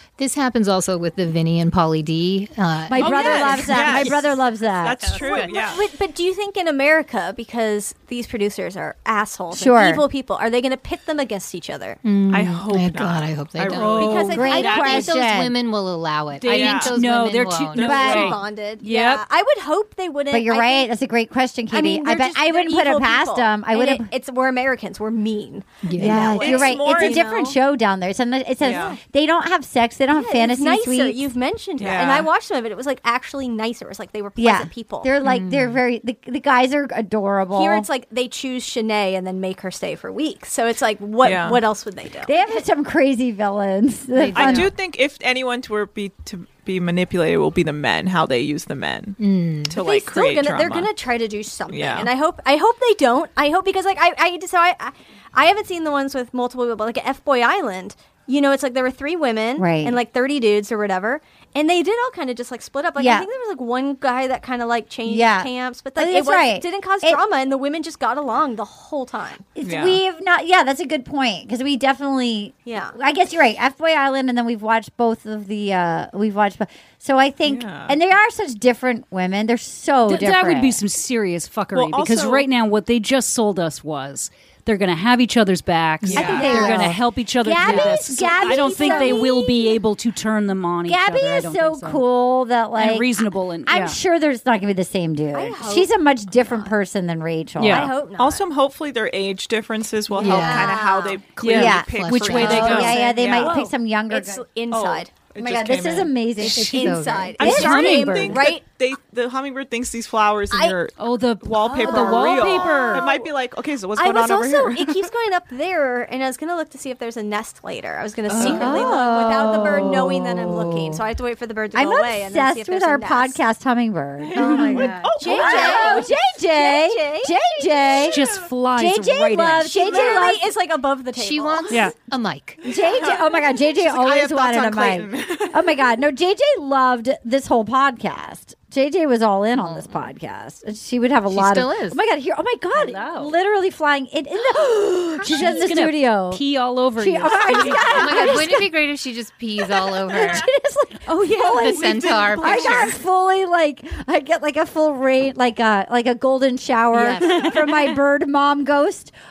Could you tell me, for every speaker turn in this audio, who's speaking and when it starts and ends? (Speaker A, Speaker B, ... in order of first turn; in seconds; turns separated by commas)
Speaker A: 0.2-4.1, Speaker B: 2.9-5.2, Speaker C: 3.0-5.8, Speaker D: 5.1-12.0, Speaker E: 5.2-5.4, Speaker B: 9.5-10.0, Speaker A: 12.0-18.4, Speaker C: 12.3-14.3, Speaker E: 13.7-15.0, Speaker D: 13.9-15.1, Speaker B: 14.3-15.5, Speaker E: 16.4-19.2, Speaker C: 16.4-16.9, Speaker D: 17.8-20.9, Speaker B: 17.8-18.3, Speaker B: 20.3-24.1, Speaker D: 21.7-27.6, Speaker A: 25.8-26.6, Speaker B: 26.0-31.2, Speaker C: 26.4-27.3, Speaker C: 28.6-28.9, Speaker D: 28.7-29.0, Speaker D: 30.1-35.1, Speaker C: 31.8-32.3, Speaker B: 34.4-37.9, Speaker A: 35.2-35.8, Speaker D: 37.5-42.6, Speaker C: 41.2-41.6, Speaker B: 42.2-44.7, Speaker A: 44.1-44.7, Speaker C: 44.4-49.2, Speaker A: 49.2-49.8, Speaker C: 49.7-50.9, Speaker D: 49.7-69.5, Speaker C: 51.7-52.1, Speaker B: 59.6-60.0, Speaker B: 63.0-63.3, Speaker B: 65.0-67.2, Speaker B: 69.5-80.8, Speaker C: 69.6-70.0, Speaker D: 72.7-73.0, Speaker C: 77.4-78.0, Speaker E: 80.1-92.0, Speaker C: 81.7-82.5, Speaker A: 86.0-86.9, Speaker C: 86.1-86.4, Speaker B: 86.2-89.8, Speaker A: 87.6-87.9, Speaker D: 88.1-89.3, Speaker B: 90.9-97.9, Speaker E: 92.8-94.0, Speaker D: 95.3-95.9, Speaker E: 97.6-97.9, Speaker D: 97.6-98.5, Speaker C: 98.2-103.5, Speaker D: 100.1-101.2, Speaker A: 100.2-100.8, Speaker E: 101.4-103.0, Speaker B: 101.5-104.4, Speaker A: 101.6-102.9, Speaker D: 102.7-105.2, Speaker C: 104.7-106.1, Speaker B: 105.4-106.8, Speaker A: 106.4-107.6, Speaker D: 106.5-108.7, Speaker C: 107.4-115.1, Speaker E: 107.4-108.4, Speaker B: 107.4-107.9, Speaker D: 110.5-110.8, Speaker E: 111.0-113.1, Speaker D: 111.7-113.3, Speaker D: 113.9-123.4, Speaker C: 118.3-118.8, Speaker B: 118.4-120.5, Speaker B: 121.7-128.2, Speaker C: 124.3-126.0, Speaker D: 124.4-127.4, Speaker E: 128.1-129.9, Speaker B: 128.8-130.4, Speaker D: 129.6-131.9, Speaker C: 129.9-130.3, Speaker A: 131.1-132.6, Speaker C: 132.6-135.8, Speaker B: 132.6-146.4, Speaker A: 139.6-139.9, Speaker A: 141.3-142.0, Speaker E: 142.8-143.3, Speaker E: 145.3-148.5, Speaker B: 147.0-148.7, Speaker A: 147.8-150.5, Speaker B: 150.1-159.1, Speaker A: 151.4-152.9, Speaker C: 151.9-152.6, Speaker A: 156.9-157.5, Speaker E: 157.4-157.7